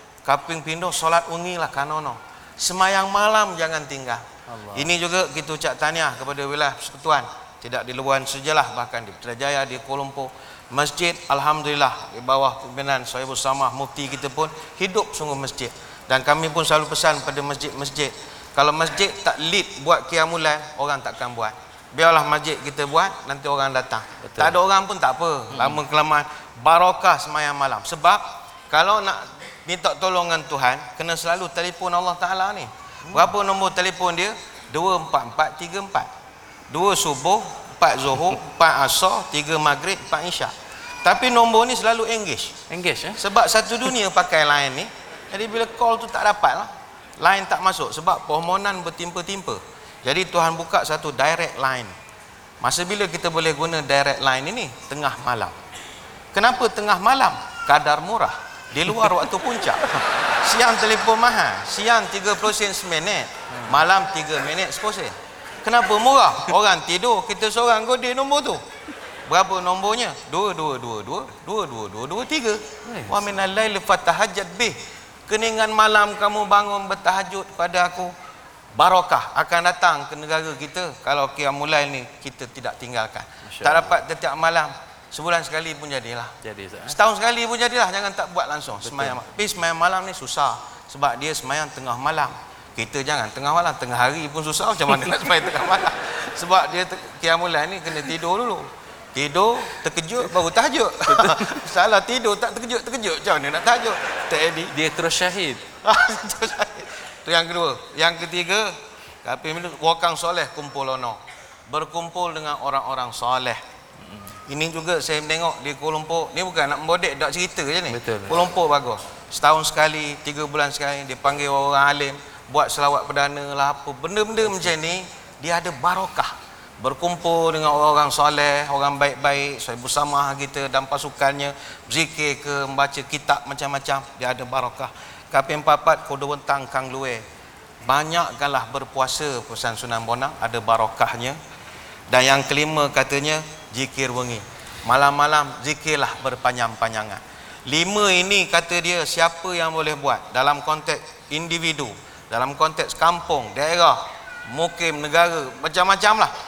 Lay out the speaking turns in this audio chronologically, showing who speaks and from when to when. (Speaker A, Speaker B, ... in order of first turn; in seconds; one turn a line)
Speaker A: 0.2-36.1
Speaker B: 4.5-4.9
Speaker B: 24.2-24.6
Speaker B: 25.5-25.8
Speaker A: 36.7-42.6
Speaker B: 42.7-43.2
Speaker A: 43.2-51.9
Speaker A: 52.6-55.6
Speaker A: 56.3-68.6
Speaker B: 63.5-63.8
Speaker A: 69.3-78.1
Speaker B: 72.8-73.2
Speaker A: 78.8-86.3
Speaker B: 83.4-84.0
Speaker B: 86.4-87.0
Speaker A: 86.9-104.7
Speaker B: 88.8-89.2
Speaker B: 101.1-101.6
Speaker B: 104.7-105.6
Speaker A: 105.8-113.6
Speaker B: 114.0-114.4
Speaker A: 114.5-137.2
Speaker B: 117.9-118.5
Speaker A: 137.8-141.4
Speaker A: 142.1-156.3